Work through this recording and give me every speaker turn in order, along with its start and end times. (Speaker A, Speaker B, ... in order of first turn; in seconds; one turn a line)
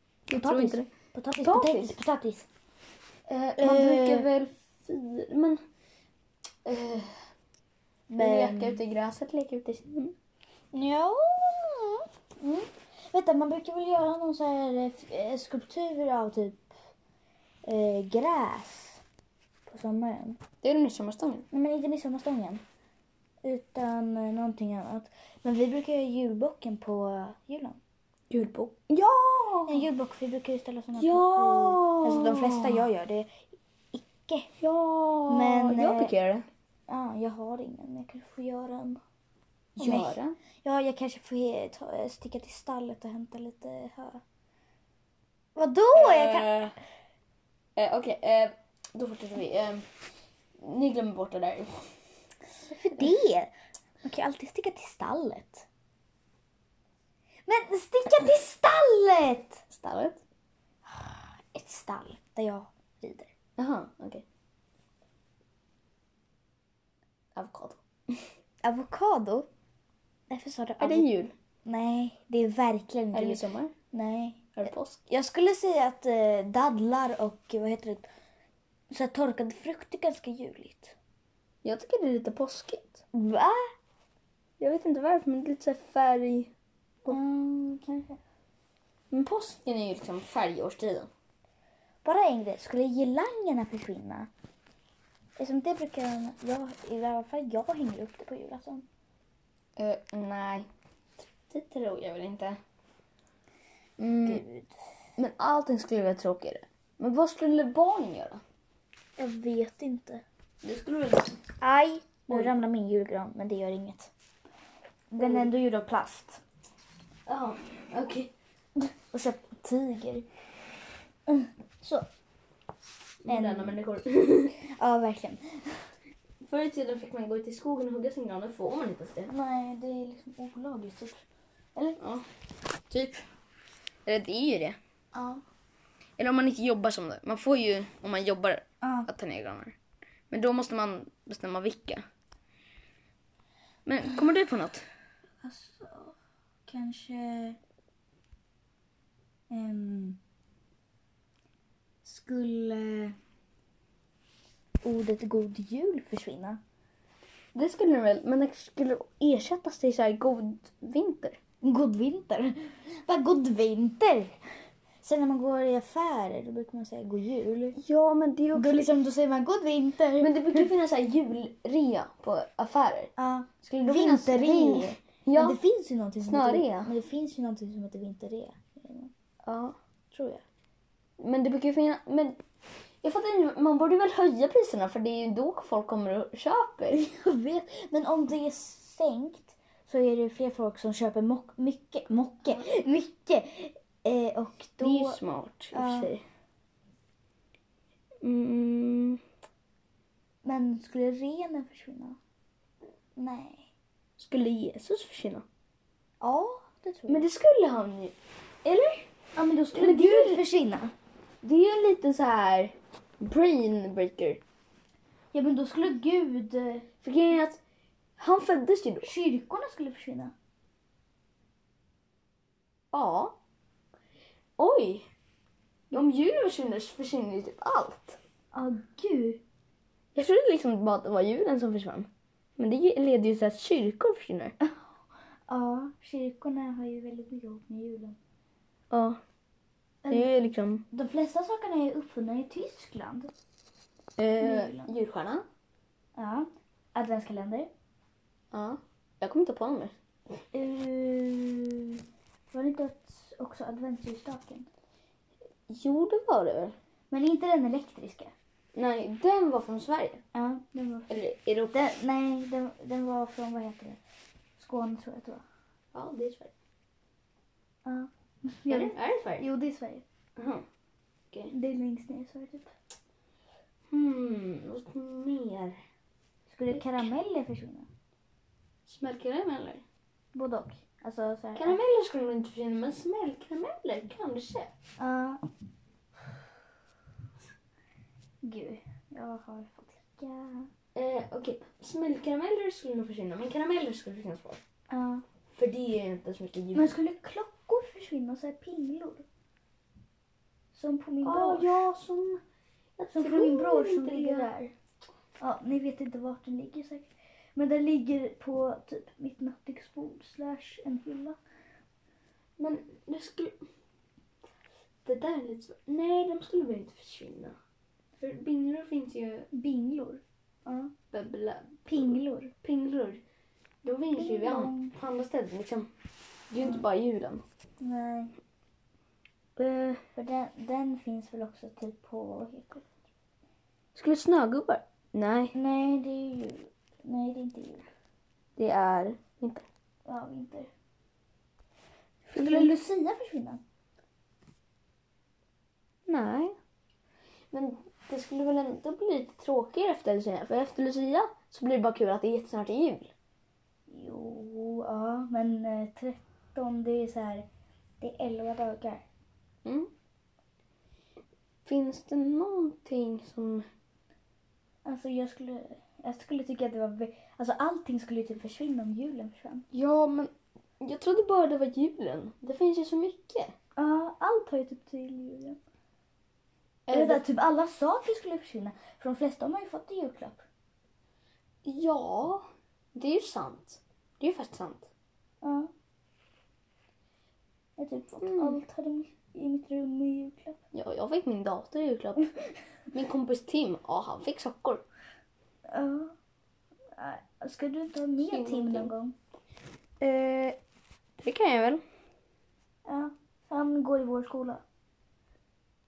Speaker A: 0.3-2.0
Speaker B: 0.3-2.5
Speaker A: 3.3-5.6
Speaker B: 3.6-4.3
Speaker A: 6.6-7.2
Speaker B: 8.1-8.8
Speaker A: 8.1-10.1
Speaker B: 10.7-16.7
Speaker B: 17.6-19.0
Speaker B: 19.7-20.4
Speaker A: 20.6-21.5
Speaker B: 21.5-22.6
Speaker B: 23.4-27.8
Speaker A: 28.3-29.9
Speaker B: 29.7-33.3
Speaker A: 30.9-32.9
Speaker B: 33.9-34.5
Speaker A: 34.6-36.4
Speaker B: 35.3-36.1
Speaker B: 36.9-39.0
Speaker A: 39.8-40.3
Speaker B: 39.8-44.2
Speaker B: 45.5-46.6
Speaker A: 45.9-46.7
Speaker A: 47.8-49.8
Speaker A: 50.6-51.9
Speaker B: 52.7-53.5
Speaker B: 54.0-55.6
Speaker B: 57.5-59.6
Speaker A: 59.7-60.2
Speaker B: 60.9-63.3
Speaker A: 63.6-64.2
Speaker A: 67.3-68.2
Speaker B: 68.6-69.5
Speaker B: 70.3-71.1
Speaker A: 70.8-71.3
Speaker B: 71.7-78.0
Speaker A: 73.1-73.7
Speaker A: 74.5-75.0
Speaker B: 78.9-81.0
Speaker A: 81.6-83.0
Speaker B: 83.1-83.6
Speaker A: 84.6-86.5
Speaker B: 87.1-88.2
Speaker A: 89.1-91.1
Speaker B: 92.0-94.3
Speaker B: 95.4-98.8
Speaker A: 99.8-100.7
Speaker A: 101.5-102.6
Speaker A: 104.0-104.4
Speaker B: 104.1-104.7
Speaker A: 105.2-108.4
Speaker B: 109.2-110.2
Speaker A: 110.6-111.4
Speaker B: 111.6-114.1
Speaker B: 115.1-116.4
Speaker A: 115.2-115.5
Speaker A: 117.3-118.3
Speaker B: 119.1-120.2
Speaker B: 121.3-122.1
Speaker A: 123.2-124.5
Speaker B: 123.3-123.8
Speaker B: 124.7-125.8
Speaker A: 126.4-129.3
Speaker B: 129.3-132.0
Speaker A: 132.0-132.2
Speaker A: 132.9-133.2
Speaker A: 134.1-134.8
Speaker B: 135.1-135.4
Speaker A: 136.2-139.8
Speaker B: 138.8-139.1
Speaker A: 140.3-142.0
Speaker A: 143.8-144.8
Speaker B: 145.4-146.1
Speaker B: 146.7-147.6
Speaker B: 149.5-150.2
Speaker B: 152.0-153.1
Speaker B: 154.8-156.6
Speaker A: 157.5-161.4
Speaker B: 161.6-164.3
Speaker B: 165.0-167.8
Speaker A: 167.8-168.9
Speaker B: 168.5-170.7
Speaker A: 170.2-173.1
Speaker B: 173.2-179.1
Speaker A: 173.6-175.6
Speaker A: 176.2-176.9
Speaker A: 179.4-179.7
Speaker B: 180.1-180.4
Speaker A: 181.2-182.4
Speaker A: 183.0-187.0
Speaker B: 186.9-195.2
Speaker A: 194.8-196.2
Speaker B: 195.7-196.1
Speaker A: 198.2-199.2
Speaker B: 200.4-202.2
Speaker B: 203.2-203.7
Speaker A: 204.2-205.4
Speaker B: 206.2-207.2
Speaker A: 207.1-209.1
Speaker B: 209.3-210.9
Speaker A: 209.7-210.4
Speaker A: 211.4-214.4
Speaker B: 215.3-216.8
Speaker A: 217.0-217.6
Speaker A: 218.2-219.1
Speaker B: 219.0-220.3
Speaker A: 222.9-223.3
Speaker A: 224.6-225.1
Speaker A: 225.9-228.2
Speaker B: 228.5-229.4
Speaker A: 230.1-234.5
Speaker B: 235.5-238.2
Speaker A: 238.9-239.2
Speaker B: 240.0-240.4
Speaker A: 240.1-240.8
Speaker B: 240.9-243.3
Speaker A: 244.2-245.4
Speaker B: 244.4-244.9
Speaker B: 246.2-247.7
Speaker A: 248.5-249.9
Speaker B: 250.5-252.0
Speaker B: 252.5-254.7
Speaker A: 255.7-256.7
Speaker B: 257.1-258.3
Speaker A: 258.7-260.2
Speaker B: 260.3-264.0
Speaker A: 261.1-261.9
Speaker B: 264.6-265.4
Speaker A: 265.9-266.5
Speaker B: 267.8-270.0
Speaker A: 268.7-269.5
Speaker A: 270.4-270.6
Speaker B: 271.5-272.7
Speaker A: 273.9-275.8
Speaker B: 276.5-277.9
Speaker A: 276.7-277.1
Speaker A: 278.9-279.8
Speaker B: 280.3-281.8
Speaker A: 281.6-284.7
Speaker B: 285.0-285.4
Speaker B: 288.4-290.7
Speaker A: 290.9-294.6
Speaker B: 294.9-295.2
Speaker A: 295.5-296.9
Speaker B: 296.7-299.2
Speaker B: 300.7-301.9
Speaker A: 301.2-302.4
Speaker A: 303.0-304.5
Speaker B: 303.1-304.7
Speaker B: 305.4-311.4
Speaker A: 312.6-313.6
Speaker A: 315.0-317.6
Speaker A: 318.2-319.5
Speaker B: 319.5-320.9
Speaker A: 321.1-323.2
Speaker B: 321.9-322.5
Speaker A: 323.8-325.9
Speaker B: 324.1-324.9
Speaker A: 326.5-327.4
Speaker B: 327.8-328.3
Speaker A: 329.6-330.0
Speaker B: 330.1-332.9
Speaker A: 333.9-335.5
Speaker B: 335.5-337.9
Speaker A: 338.6-339.6
Speaker B: 340.1-340.7
Speaker B: 342.3-343.6
Speaker A: 342.3-342.8
Speaker A: 346.1-346.5
Speaker A: 347.5-353.1
Speaker B: 353.9-357.4
Speaker B: 358.0-359.0
Speaker A: 359.6-359.9
Speaker A: 361.6-363.6
Speaker B: 364.9-369.6
Speaker A: 369.7-373.5
Speaker B: 373.8-375.6
Speaker A: 376.9-377.2
Speaker B: 376.9-380.4
Speaker A: 381.6-382.4
Speaker A: 382.9-384.9
Speaker B: 385.4-385.7
Speaker B: 387.8-390.6
Speaker A: 388.2-388.6
Speaker A: 390.7-392.3
Speaker A: 392.9-394.8
Speaker B: 395.7-396.1
Speaker B: 396.9-399.1
Speaker A: 398.2-398.9
Speaker A: 400.0-400.6
Speaker A: 401.2-401.8
Speaker B: 402.9-404.6